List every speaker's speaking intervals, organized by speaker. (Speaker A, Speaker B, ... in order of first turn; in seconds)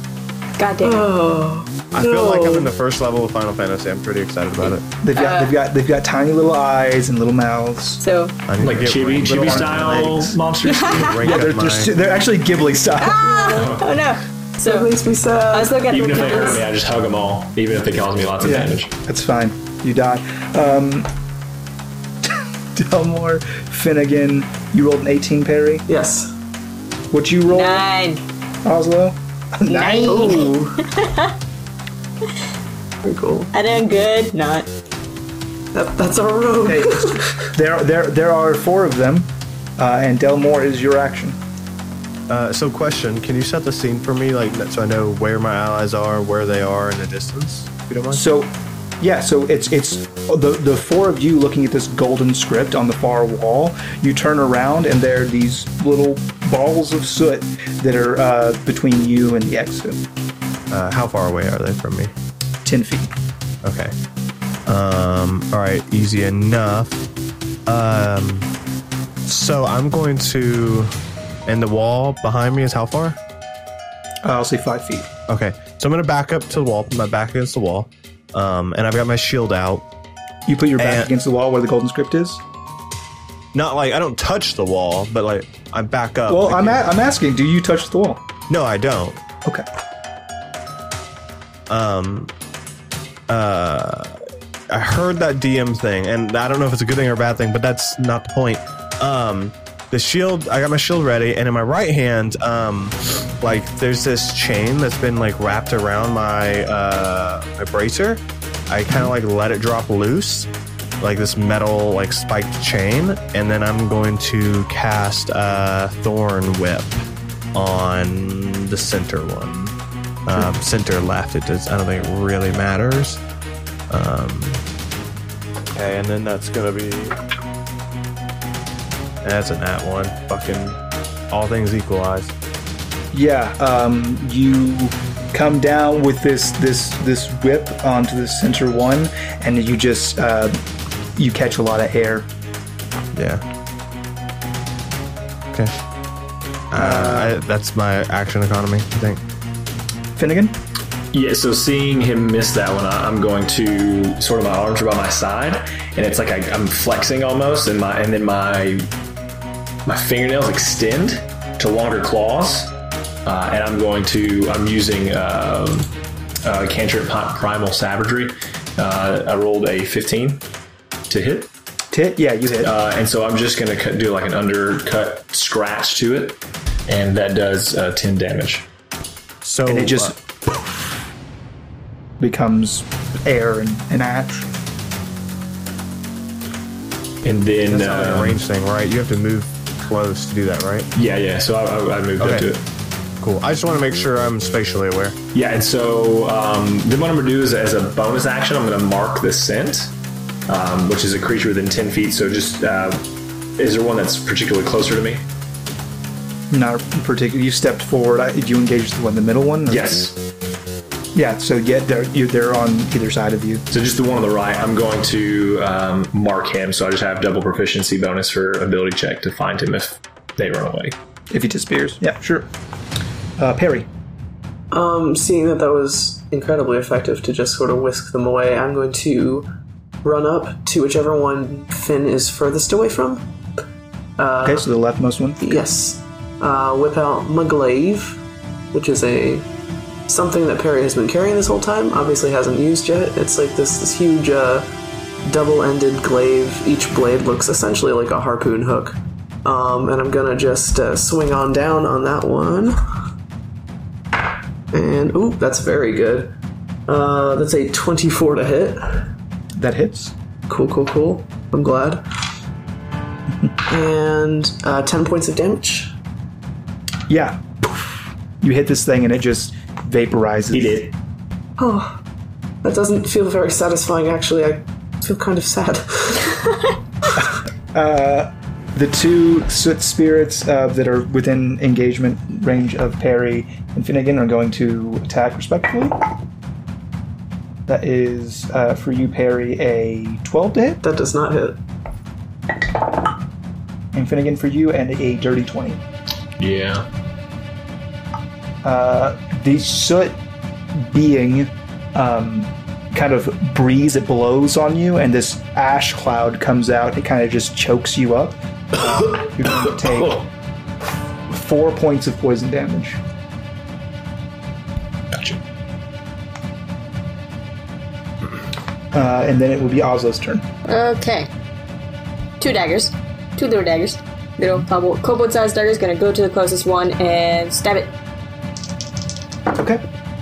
Speaker A: 0.6-1.1, 4.6-5.5, 8.0-8.4, 10.6-11.2, 13.0-14.9, 15.5-16.6, 27.5-28.2, 29.7-31.3, 33.5-34.7, 320.7-321.3, 322.4-327.9
Speaker B: 0.8-2.7, 13.2-13.7, 14.6-16.6, 25.9-26.3, 30.1-30.9, 33.0-33.5, 35.7-37.3, 224.7-229.5, 230.0-233.3, 234.2-234.6, 235.4-238.2, 238.7-239.5, 240.1-244.7, 245.2-252.8, 254.7-256.3, 256.9-259.0, 260.5-262.0, 263.7-265.9, 271.6-272.0, 272.6-276.4, 290.8-291.6
Speaker C: 1.9-4.9, 8.5-11.9, 42.3-48.2, 60.7-62.1, 63.6-64.0, 64.7-67.0, 67.7-68.5, 69.3-71.0, 71.5-73.2, 75.3-79.8, 80.8-81.1, 83.5-86.9, 88.5-89.2, 91.7-92.3, 93.3-119.8, 120.3-123.2, 123.9-124.6, 125.7-127.2, 129.2-130.8, 131.3-132.3, 143.1-143.4, 145.5-145.8, 146.7-149.2, 179.4-180.1, 187.7-190.9, 192.2-192.5, 193.2-195.2
Speaker D: 5.0-8.0, 11.2-13.4, 18.4-21.1, 22.7-25.9, 27.1-27.8, 28.6-30.5, 36.6-41.4, 48.1-60.0, 62.6-63.1, 74.2-75.1, 80.5-82.4, 86.3-88.2, 133.1-140.6, 141.2-142.3, 146.7-147.4, 150.2-150.6, 171.9-172.7, 179.7-180.6, 182.2-184.5, 206.5-210.0, 211.1-213.6, 221.3-222.5, 223.4-223.9, 234.4-235.5, 259.6-260.1, 267.1-267.4, 268.4-270.8, 277.7-286.0, 287.7-290.8, 293.9-295.8, 298.6-300.2, 300.7-310.3, 311.3-313.0, 318.9-320.5, 329.5-329.8
Speaker E: 8.6-11.2, 13.5-13.9, 15.9-18.9, 151.1-158.9, 159.9-162.7, 163.2-165.9, 166.4-170.4, 171.1-171.5, 172.6-178.7, 187.2-188.4, 190.9-192.6, 195.3-199.9, 200.5-203.0, 203.6-205.2, 209.7-210.2, 213.7-220.9, 270.5-270.9, 296.4-296.9, 309.1-310.2